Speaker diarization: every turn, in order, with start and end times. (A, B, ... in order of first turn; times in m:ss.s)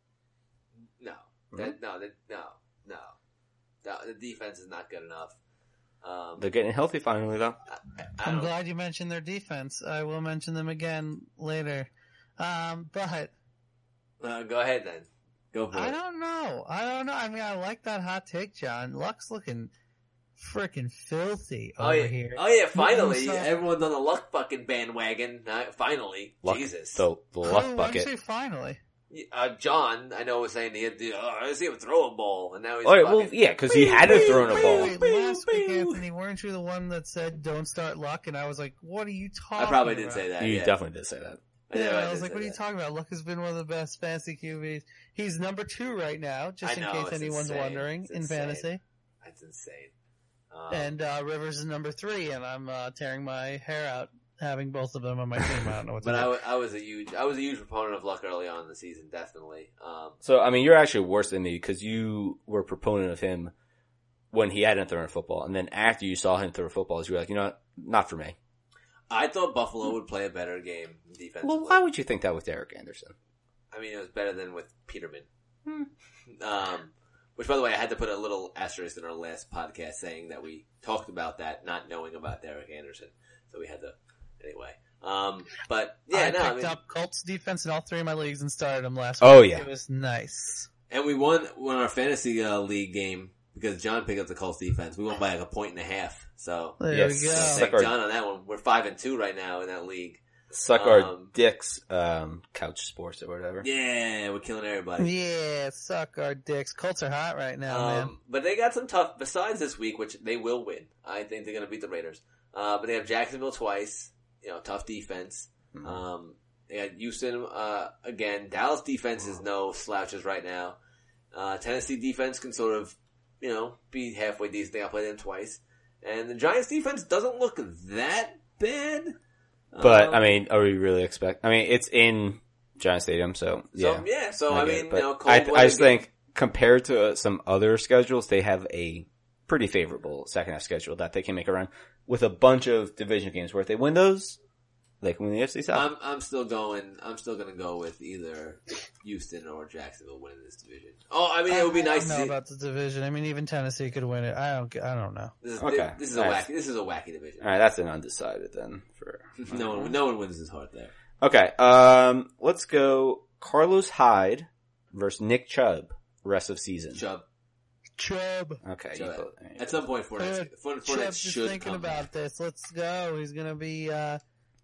0:01.0-0:03.2 A
0:03.8-0:05.4 A
0:06.0-0:06.5 A
0:06.4-0:07.6 B
0:07.7-0:08.5 A
0:08.2-0:13.3 C
0:14.2-0:16.0 A
0:15.7-0:19.7 C
0:20.4-0:23.5 C
0:21.8-0:27.0 A
0:26.4-0:28.1 B
0:27.4-0:28.8 C
0:29.1-0:35.9 A
0:32.8-0:35.0 B
0:34.0-0:40.3 C
0:39.6-0:40.7 A
0:40.4-0:41.4 B
0:41.7-0:42.6 A
0:41.7-0:48.8 C
0:46.6-0:48.7 A
0:49.2-0:49.9 A
0:50.5-0:51.0 A
0:50.7-0:56.3 C
0:56.0-1:00.2 A
1:00.2-1:03.5 B
1:04.3-1:08.4 B
1:09.1-1:11.8 A
1:11.4-1:13.1 B
1:13.7-1:15.3 A
1:16.3-1:26.8 A
1:26.1-1:30.7 C
1:29.2-1:29.7 B
1:30.9-1:40.2 A
1:36.8-1:37.7 C
1:36.9-1:37.9 B
1:40.5-1:43.7 B
1:40.8-1:41.3 A
1:43.6-1:45.1 A
1:45.0-1:48.1 C
1:47.7-2:00.8 A
1:55.8-1:56.0 B
2:01.3-2:09.2 A
2:09.7-2:10.4 A
2:09.8-2:24.4 B
2:13.8-2:16.0 A
2:25.0-2:25.9 B
2:25.7-2:32.3 A
2:31.5-2:35.3 C
2:35.4-2:37.5 A
2:35.6-2:36.5 B
2:37.4-2:39.9 B
2:39.4-2:40.9 A
2:41.2-2:47.0 B
2:46.9-2:47.2 A
2:48.0-2:48.6 C
2:48.6-2:49.8 B
2:49.0-2:52.1 A
2:50.2-2:54.2 C